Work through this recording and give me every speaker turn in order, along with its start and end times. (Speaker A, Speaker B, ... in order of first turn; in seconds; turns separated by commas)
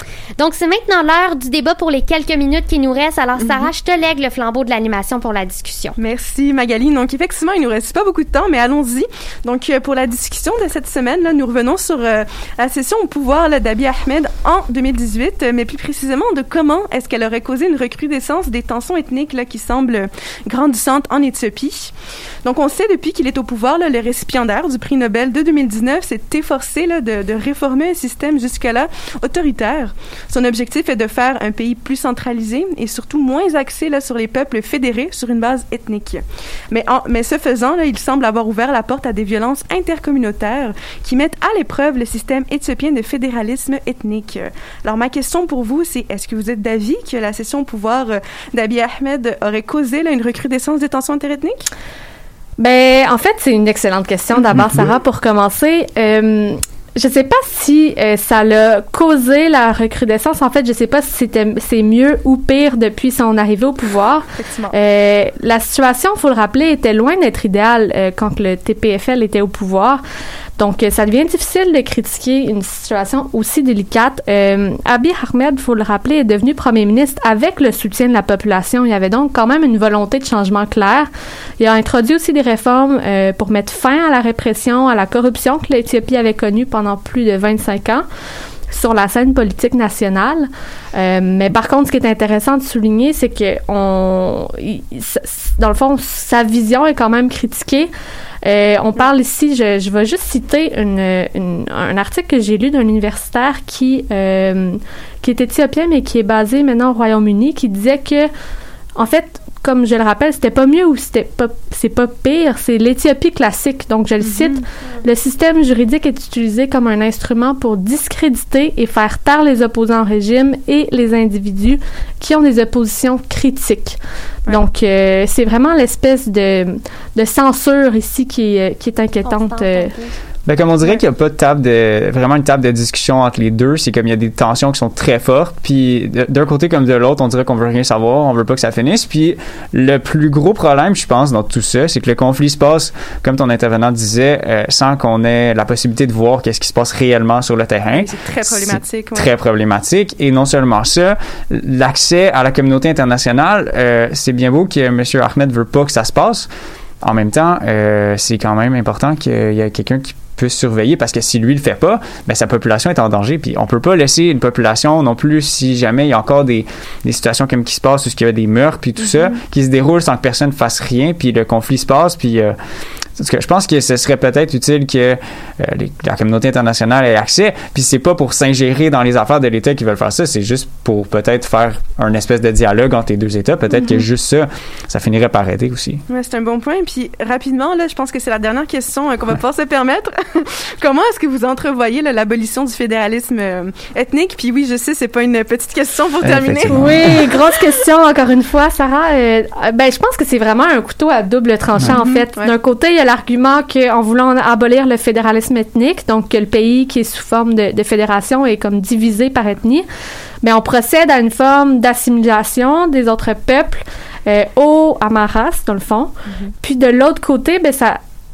Speaker A: 0.4-6.0, Speaker B: 6.0-21.9, Speaker B: 22.4-51.6, Speaker C: 52.6-70.0, Speaker B: 64.4-64.8, Speaker C: 70.6-88.0, Speaker C: 88.7-97.9, Speaker C: 98.4-108.3, Speaker C: 109.0-129.9, Speaker B: 114.2-114.6, Speaker A: 129.2-130.1, Speaker D: 130.4-156.5, Speaker B: 147.9-149.3, Speaker D: 157.0-172.5, Speaker B: 169.0-169.4, Speaker D: 173.2-186.0, Speaker B: 186.1-197.3, Speaker D: 196.2-197.2, Speaker C: 196.7-209.8, Speaker B: 201.8-202.5, Speaker C: 210.4-218.0